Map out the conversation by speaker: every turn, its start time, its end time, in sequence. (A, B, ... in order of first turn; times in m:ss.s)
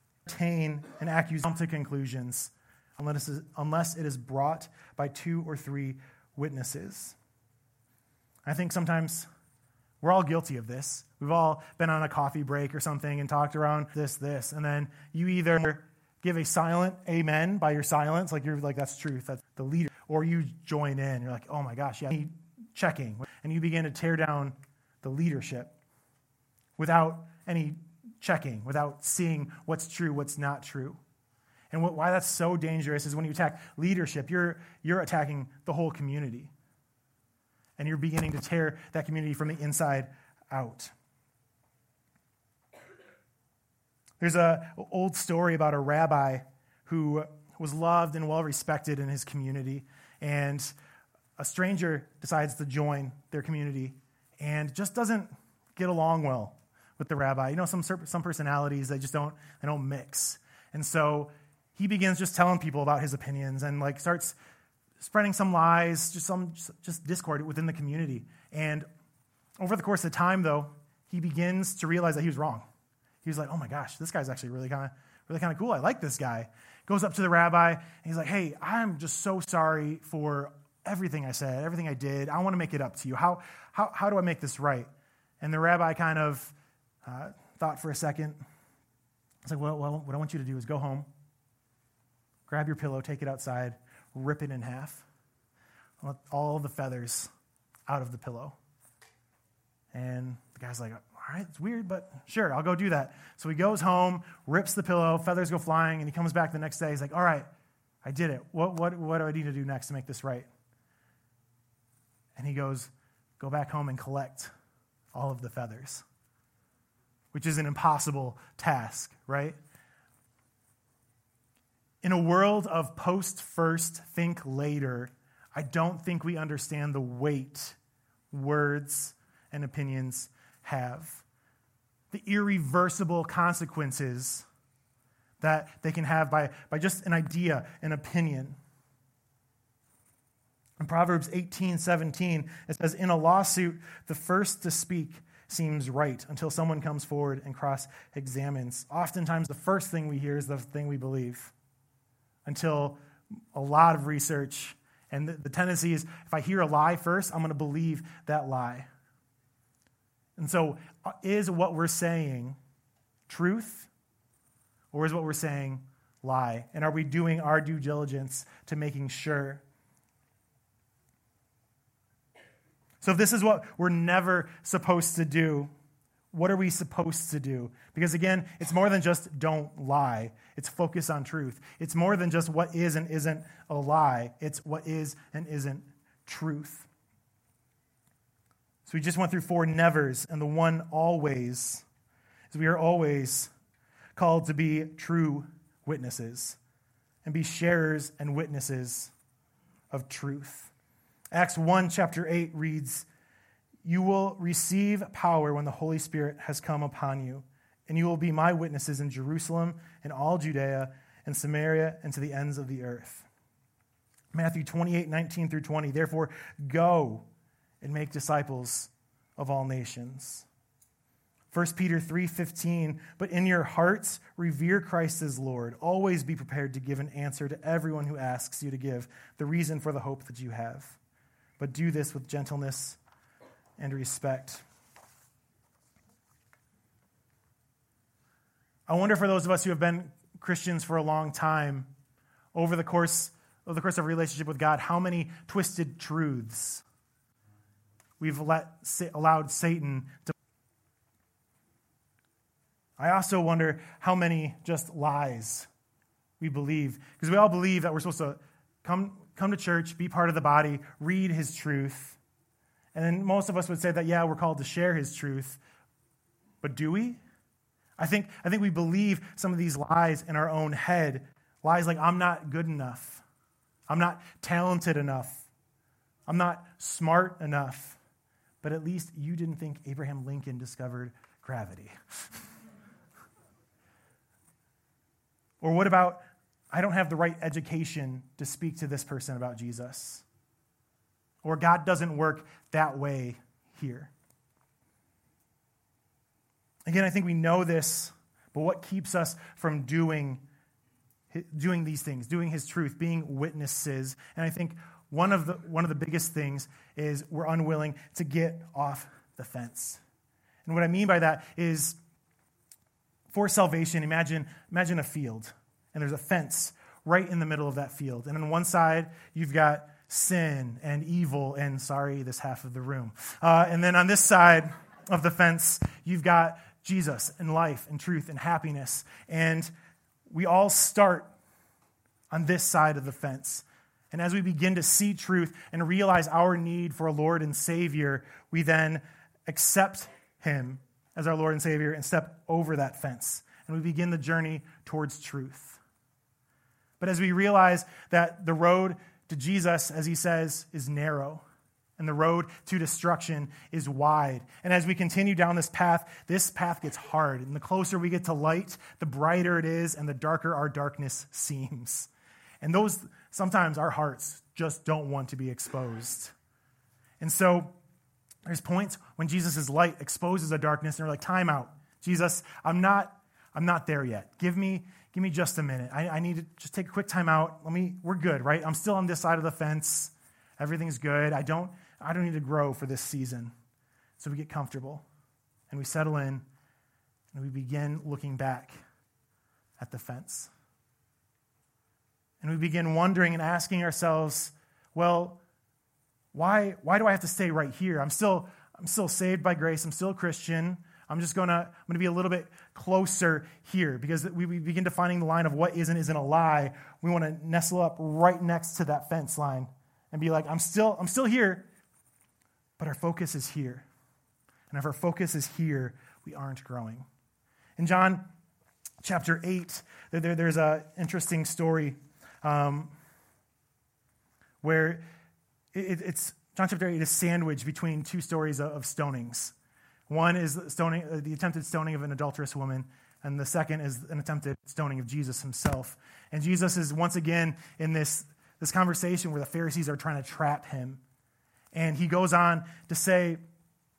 0:00.2-0:07.2 A
0:08.5-0:09.3 A
0:10.0-0:25.8 A
0:26.8-0:31.0 A
0:31.7-0:36.5 A
0:37.8-0:40.9 A
0:44.2-0:50.7 A
0:51.4-1:04.4 A
1:05.0-1:08.9 A
1:09.6-1:12.6 A
1:13.2-1:24.9 A
1:25.4-1:26.5 A
1:27.0-1:28.4 A
1:29.4-1:31.1 A
1:32.5-1:35.0 A
1:36.0-1:37.3 A
1:37.9-1:38.6 A
1:39.9-1:47.5 A
1:48.0-1:50.5 A
1:52.4-1:54.5 A
1:55.1-1:56.0 A
1:57.3-1:59.6 A
2:02.0-2:07.8 A
2:08.3-2:11.2 A
2:12.1-2:14.5 A
2:15.4-2:18.6 A
2:20.8-2:31.5 A
2:32.4-2:33.0 A
2:33.5-2:38.9 A
2:40.4-2:42.6 A
2:43.3-2:43.9 A
2:44.9-2:49.6 A
2:53.0-2:55.7 A
2:56.3-3:06.9 A
3:08.9-3:11.8 A
3:12.5-3:13.5 A
3:14.2-3:16.6 A
3:17.2-3:19.1 A
3:19.9-3:20.7 A
3:21.3-3:23.1 A
3:23.8-3:33.3 A
3:34.3-3:37.2 A
3:37.8-3:40.5 A
3:41.5-3:51.0 A
3:51.6-3:53.0 A
3:53.8-3:54.6 A
3:58.9-4:01.9 A
4:02.5-4:06.8 A
4:08.2-4:10.3 A
4:13.0-4:15.7 A
4:16.4-4:22.2 A
4:22.9-4:25.6 A
4:26.6-4:27.2 A
4:28.0-4:33.2 A
4:33.9-4:35.5 A
4:36.3-4:38.0 A
4:38.6-4:41.9 A
4:45.6-4:50.2 A
4:51.4-4:54.1 A
4:56.9-5:00.4 A
5:01.3-5:10.0 A
5:10.6-5:12.0 A
5:13.3-5:29.7 A
5:30.3-5:31.3 A
5:32.3-5:45.8 A
5:47.0-5:51.4 A
5:52.0-6:02.1 A
6:02.6-6:06.3 A
6:07.2-6:07.7 A
6:08.4-6:23.5 A
6:24.2-6:25.0 A
6:25.7-6:26.4 A
6:27.3-6:28.8 A
6:29.8-6:30.5 A
6:32.4-6:35.4 A
6:36.3-6:51.7 A
6:52.8-6:53.9 A
6:54.7-6:57.1 A
6:57.8-6:58.3 A
6:59.0-7:02.9 A
7:04.6-7:05.0 A
7:05.7-7:09.5 A
7:10.1-7:21.0 A
7:21.7-7:23.4 A